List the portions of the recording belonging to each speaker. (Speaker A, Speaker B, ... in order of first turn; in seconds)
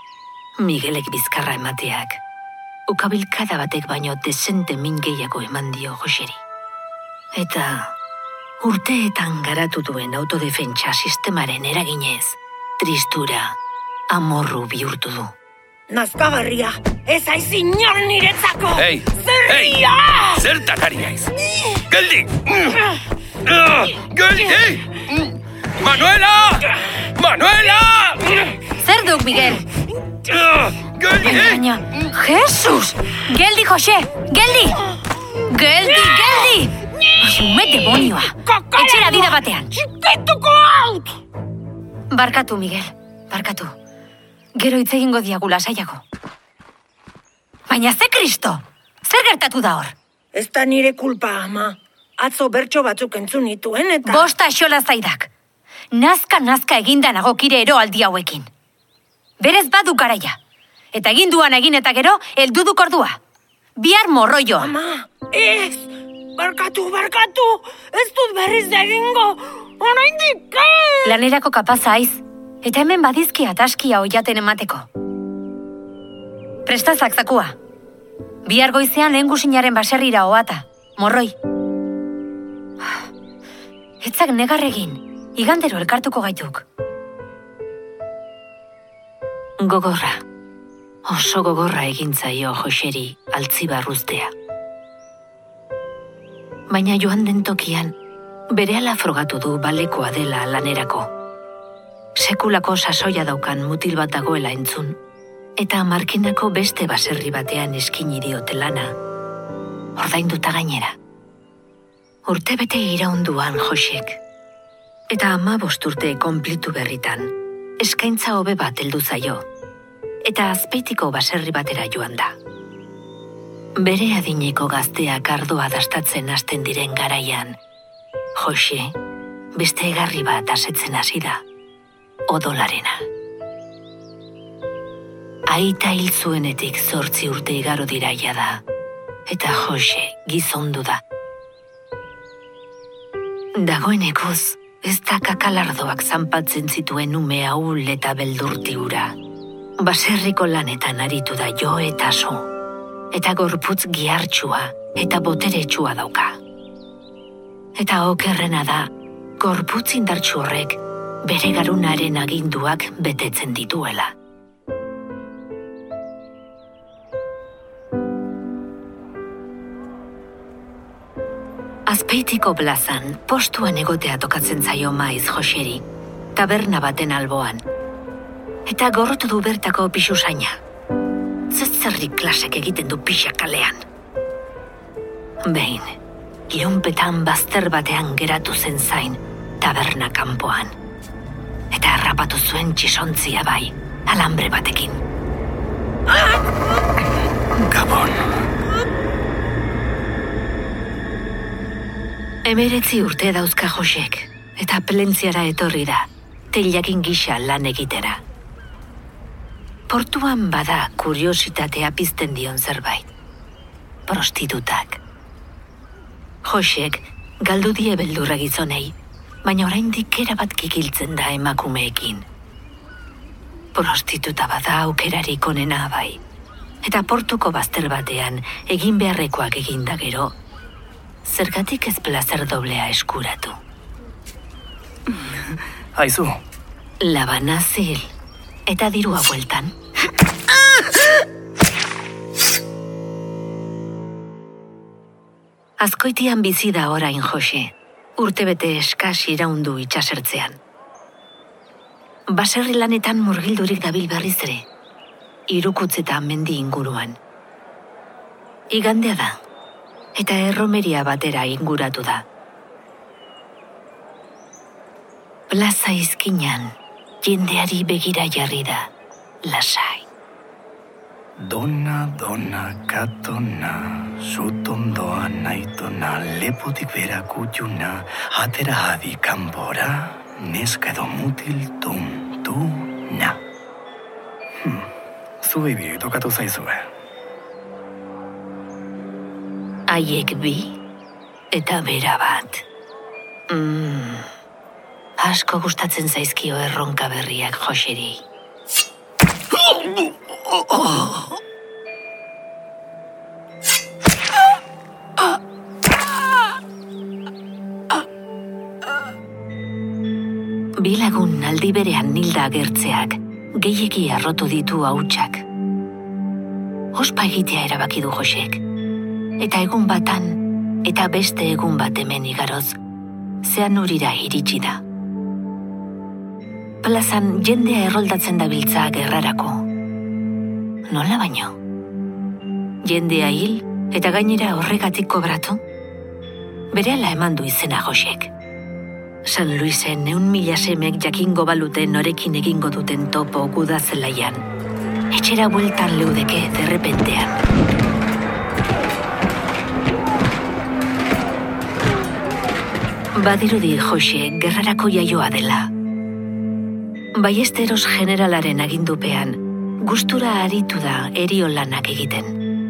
Speaker A: 0.6-2.2, 2.9-6.4, 7.3-7.9, 8.6-13.6, 14.1-15.3, 89.6-90.2, 91.0-94.3, 96.7-97.9, 98.5-101.1, 102.2-105.0, 105.6-108.9, 110.0-110.9, 112.2-114.2, 115.1-119.4, 120.2-122.3, 123.8-127.6, 128.4-128.9, 129.6-131.4, 132.3-133.0, 135.5-138.6, 139.3-141.0, 143.6-149.1, 149.8-152.5, 153.1-156.4, 157.8-158.9, 159.4-164.1, 171.9-175.8, 176.3-177.6, 178.7-180.6, 181.5-183.8, 185.4-185.9, 186.5-190.7, 191.7-195.0, 202.4-208.2, 209.9-213.1, 214.1-215.0, 216.5-222.2, 223.7-226.2, 226.8-230.3, 231.2-233.6, 237.0-238.1, 238.7-239.7, 245.8-250.6, 252.3-254.6, 255.5-257.2, 258.7-259.4, 260.2-262.2, 265.5-268.9, 269.4-270.1, 289.9-290.8, 291.5-292.6, 293.5-294.3, 295.2-298.2, 310.8-315.4, 316.9-318.6, 319.4-322.8, 323.4-324.8, 326.8-329.6, 330.9-331.6, 332.8-335.6, 336.7-338.3, 339.3-344.4, 345.1-347.4, 353.2-355.7, 357.2-362.4
Speaker B: 15.9-20.4, 38.4-41.2, 50.3-54.3, 64.6-71.2
Speaker C: 18.7-21.3, 21.9-22.8, 23.4-28.4, 30.3-31.6
Speaker D: 28.8-29.6, 31.2-34.8, 35.5-39.7, 42.1-43.7, 44.6-46.0, 47.7-49.9, 54.1-55.3, 55.9-58.5, 59.4-60.4, 60.9-63.2, 63.8-64.7, 71.0-74.9, 76.7-77.5, 78.5-81.3, 84.0-86.6
Speaker E: 197.6-198.2, 235.9-236.4, 271.4-283.4, 284.6-286.9